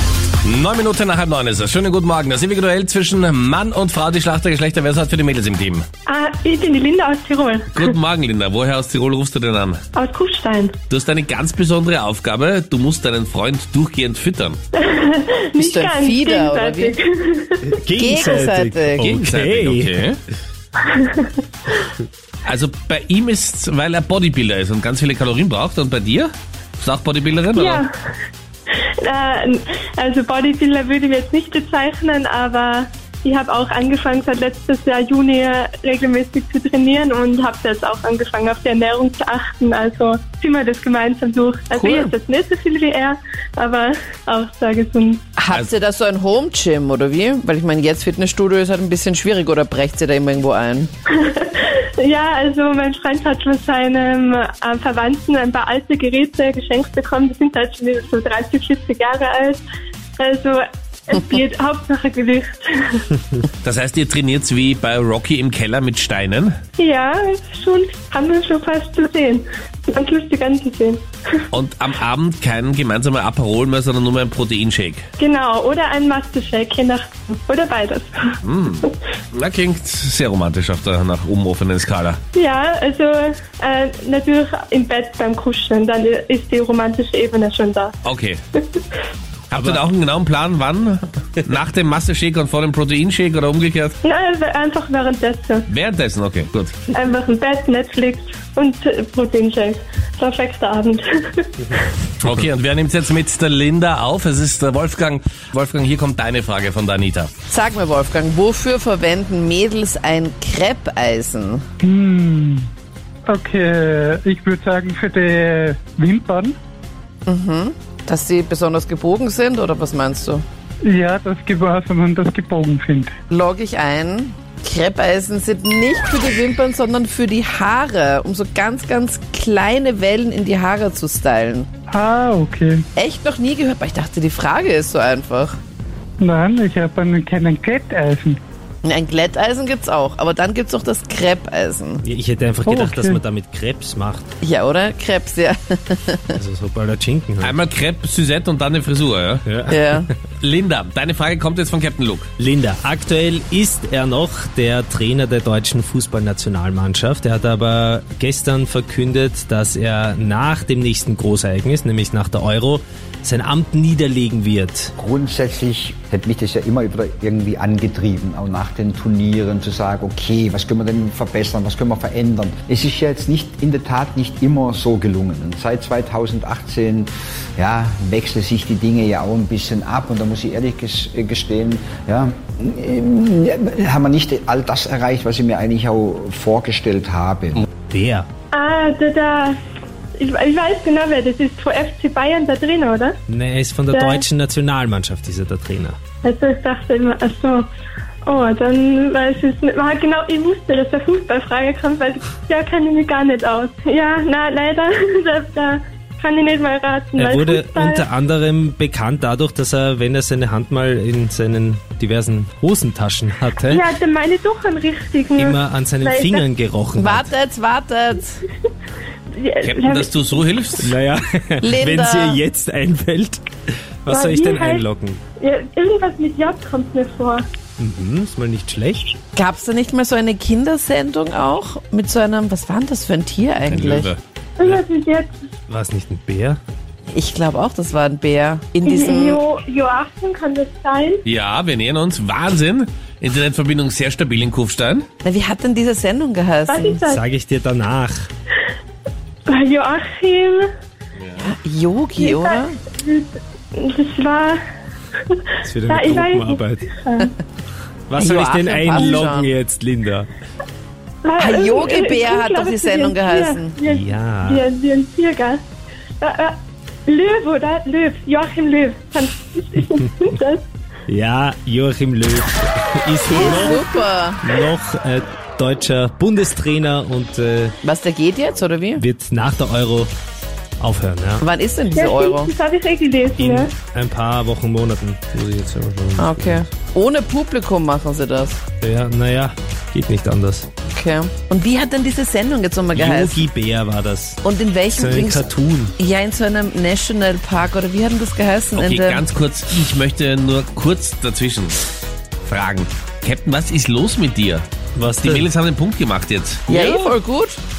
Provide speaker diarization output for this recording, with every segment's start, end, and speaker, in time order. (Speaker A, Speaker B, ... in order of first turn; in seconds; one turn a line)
Speaker A: 0.4-5.8
Speaker B: 6.0-7.9
Speaker A: 7.7-9.8
Speaker B: 9.9-10.8
Speaker A: 10.9-14.6
Speaker B: 14.7-17.7
Speaker C: 15.6-16.9
Speaker D: 17.6-19.9
Speaker C: 17.9-19.1
Speaker A: 19.0-20.2
Speaker B: 20.8-21.4
Speaker A: 22.4-27.8
Speaker B: 27.6-27.9
Speaker B: 28.8-45.2
Speaker C: 41.7-42.1
Speaker C: 45.4-50.9
Speaker B: 51.1-59.6
Speaker B: 60.2-63.1
Speaker A: 63.6-66.5
Speaker B: 66.8-71.4
Speaker A: 71.5-75.0
Speaker B: 75.2-78.4
Speaker A: 78.4-82.2
Speaker B: 82.3-88.0
Speaker A: 88.0-88.4
Speaker A: 89.5-93.9
Speaker B: 94.0-95.7
Speaker A: 95.7-96.7
Speaker B: 96.9-101.8
Speaker A: 102.2-107.3
Speaker C: 107.5-111.6
Speaker E: 111.8-112.7
Speaker E: 113.2-116.5
Speaker C: 117.3-120.4
Speaker E: 120.8-123.1
Speaker C: 123.3-131.7
Speaker E: 131.9-132.8
Speaker C: 132.9-135.6
Speaker E: 136.2-138.4
Speaker C: 138.8-142.0
Speaker D: 142.0-144.3
Speaker E: 142.7-143.2
Speaker C: 144.4-146.4
Speaker D: 146.3-147.6
Speaker A: 147.4-149.4
Speaker D: 149.4-150.1
Speaker C: 149.7-150.1
Speaker A: 150.4-152.3
Speaker D: 152.4-164.9
Speaker F: 165.0-187.6
Speaker D: 187.6-188.3
Speaker B: 188.5-189.6
Speaker B: 190.2-193.2
Speaker D: 193.3-195.9
Speaker B: 193.9-194.2
Speaker B: 196.2-197.7
Speaker B: 198.2-208.0
Speaker D: 207.2-213.8
Speaker B: 213.7-216.4
Speaker D: 215.4-217.3
Speaker C: 216.9-218.4
Speaker B: 219.3-220.4
Speaker A: 219.6-220.9
Speaker D: 220.8-223.4
Speaker C: 221.6-222.4
Speaker D: 224.0-225.2
Speaker B: 224.1-224.8
Speaker B: 225.4-227.4
Speaker D: 227.8-229.1
Speaker C: 229.3-234.1
Speaker A: 233.6-234.2
Speaker B: 234.6-235.4
Speaker D: 235.7-236.6
Speaker C: 237.1-239.4
Speaker B: 238.8-241.2
Speaker A: 241.2-245.1
Speaker C: 245.2-247.1
Speaker B: 246.7-247.2
Speaker D: 247.1-248.3
Speaker B: 249.4-250.7
Speaker A: 251.2-251.5
Speaker C: 251.4-252.7
Speaker B: 252.2-254.6
Speaker B: 255.3-257.3
Speaker D: 255.7-256.8
Speaker D: 258.1-260.3
Speaker C: 258.1-259.5
Speaker B: 261.2-265.6
Speaker C: 261.4-263.8
Speaker D: 263.8-264.6
Speaker B: 266.2-270.6
Speaker D: 271.1-277.7
Speaker C: 273.2-274.4
Speaker B: 273.3-274.0
Speaker C: 277.8-279.0
Speaker D: 279.0-280.1
Speaker D: 280.8-281.4
Speaker C: 281.4-282.5
Speaker B: 281.9-283.7
Speaker D: 283.4-286.6
Speaker C: 286.1-288.6
Speaker D: 288.8-290.7
Speaker C: 290.9-293.4
Speaker D: 292.9-294.4
Speaker C: 294.4-299.2
Speaker D: 294.9-295.9
Speaker A: 298.8-301.8
Speaker A: 302.4-304.6
Speaker D: 304.9-305.5
Speaker A: 305.2-307.1
Speaker C: 306.7-307.6